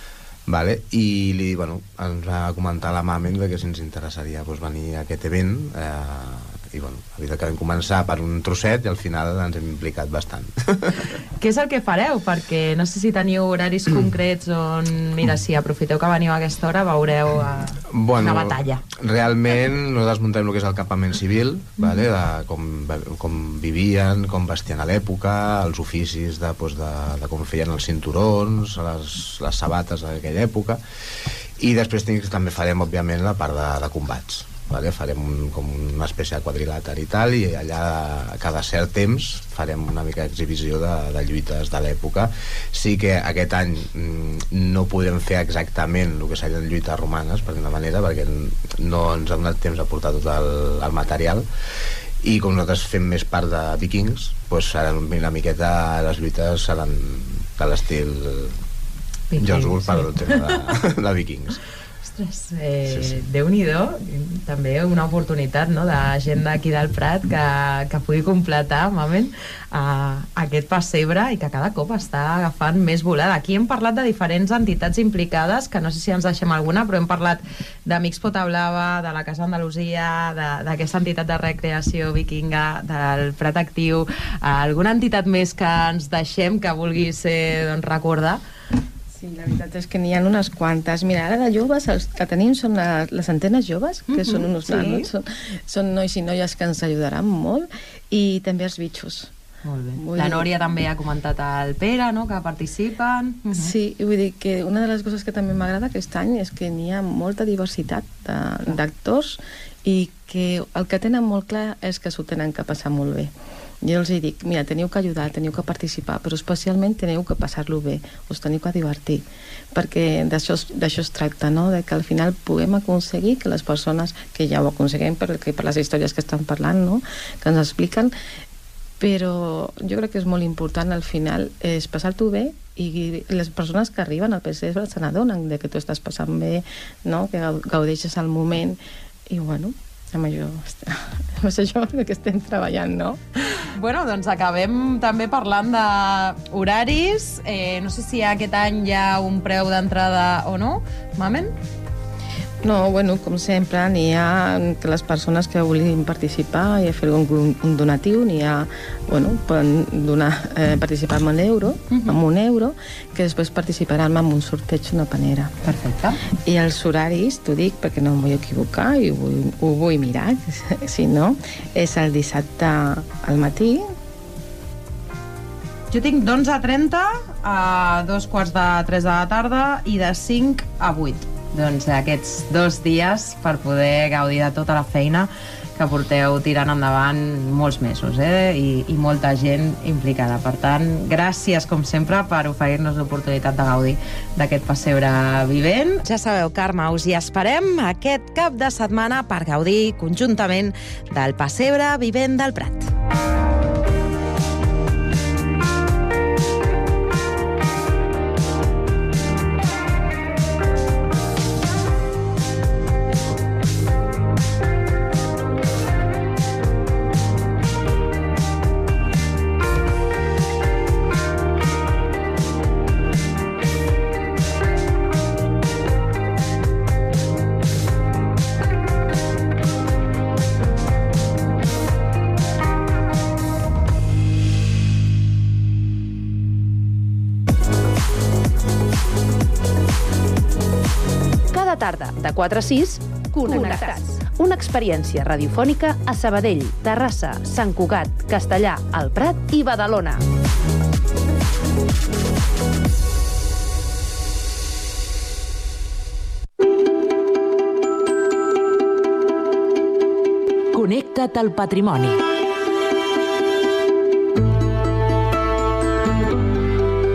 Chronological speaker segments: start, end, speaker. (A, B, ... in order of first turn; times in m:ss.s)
0:00.5-0:11.0 A
0:11.4-0:18.8 B
0:17.9-0:30.8 A
0:31.6-0:51.5 A
0:52.2-0:58.6 A
0:59.3-1:00.5 B
0:59.4-1:01.6 A
1:02.0-1:28.4 B
1:02.9-1:03.2 A
1:29.2-1:39.3 C
1:34.1-1:35.1 B
1:39.6-1:43.7 B
1:40.0-1:40.5 C
1:43.5-2:08.1 C
2:09.0-2:23.2 C
2:23.7-2:31.5 B
2:32.6-2:45.5 C
2:41.9-2:42.2 B
2:45.6-2:46.2 B
2:46.5-2:53.9 C
2:55.9-3:22.9 B
4:01.5-4:10.2 D
4:03.5-4:03.9 E
4:20.7-4:22.2 E